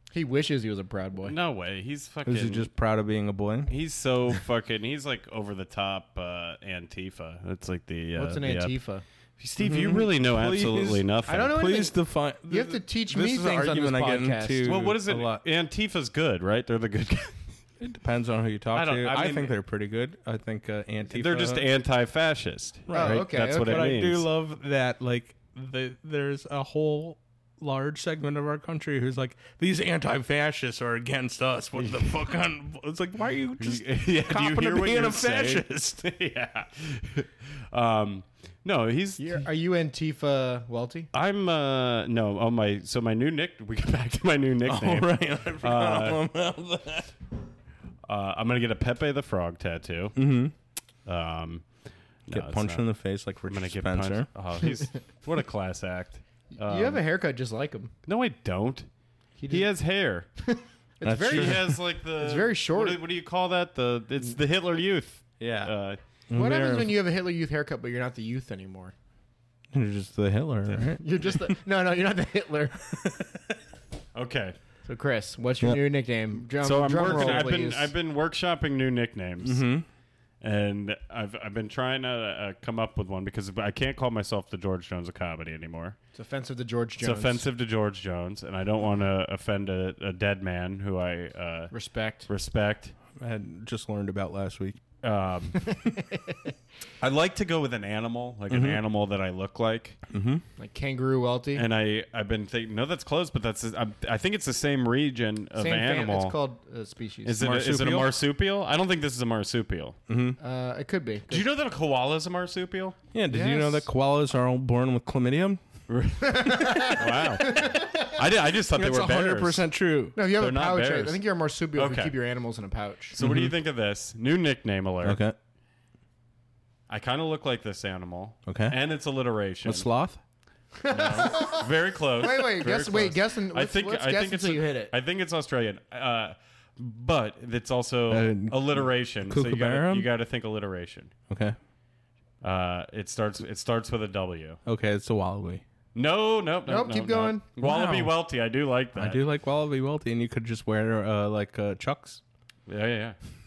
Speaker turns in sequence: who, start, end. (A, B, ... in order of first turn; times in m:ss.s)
0:00.1-0:01.4 A
0:01.2-0:02.7 B
0:02.2-0:03.7 C
0:03.7-0:08.8 B
0:08.2-0:09.0 A
0:09.4-0:11.5 B
0:09.6-0:15.4 C
0:11.3-0:12.0 A
0:12.5-0:14.8 A
0:14.6-0:17.4 B
0:17.8-0:21.7 C
0:18.7-0:19.5 B
0:21.1-0:24.3 B
0:22.9-0:36.1 C
0:22.9-0:24.0 A
0:33.6-0:39.4 B
0:39.2-0:41.1 A
0:41.1-0:46.2 B
0:44.7-0:47.1 C
0:48.1-0:50.2 B
0:50.2-0:50.5 C
0:51.1-0:51.7 B
0:52.2-0:52.8 B
0:52.3-0:54.3 C
0:53.5-0:57.0 B
0:56.6-0:57.9 A
0:58.1-0:58.9 B
0:59.4-0:59.7 A
0:59.5-1:00.3 B
1:00.4-1:03.0 A
1:01.0-1:01.8 C
1:01.2-1:06.0 B
1:05.4-1:05.7 C
1:06.3-1:07.0 C
1:06.3-1:08.9 A
1:09.7-1:11.0 C
1:11.0-1:12.9 A
1:13.0-1:13.4 C
1:14.2-1:14.6 B
1:14.9-1:17.9 A
1:16.6-1:19.7 B
1:17.1-1:17.5 C
1:19.4-1:19.9 C
1:20.4-1:26.0 B
1:26.2-1:27.5 A
1:27.0-1:31.7 B
1:31.7-1:32.3 A
1:32.3-1:32.9 B
1:33.2-1:34.8 C
1:35.0-1:35.7 B
1:35.6-1:36.5 A
1:37.0-1:40.0 B
1:38.5-1:38.8 C
1:40.1-1:40.4 C
1:40.6-1:41.7 A
1:41.6-1:46.4 B
1:45.6-1:47.4 A
1:47.2-1:50.0 B
1:47.4-1:48.1 C
1:50.1-1:50.4 C
1:50.4-1:51.5 A
1:51.3-1:53.0 B
1:53.1-1:55.6 C
1:53.3-1:53.9 A
1:55.9-1:59.6 B
1:56.2-1:58.2 A
1:58.7-2:00.2 C
2:00.2-2:03.2 A
2:00.4-2:01.2 B
2:01.8-2:02.2 B
2:03.1-2:05.2 B
2:03.2-2:03.6 C
2:05.0-2:05.4 C
2:06.9-2:09.9 B
2:08.5-2:08.8 C
2:09.6-2:10.2 C
2:10.8-2:14.9 A
2:10.9-2:21.1 B
2:18.1-2:20.1 C
2:21.3-2:21.6 C
2:22.4-2:24.6 B
2:24.6-2:25.6 C
2:26.0-2:29.2 B
2:26.7-2:27.5 A
2:27.6-2:28.2 C
2:29.0-2:32.2 C
2:32.7-2:33.2 B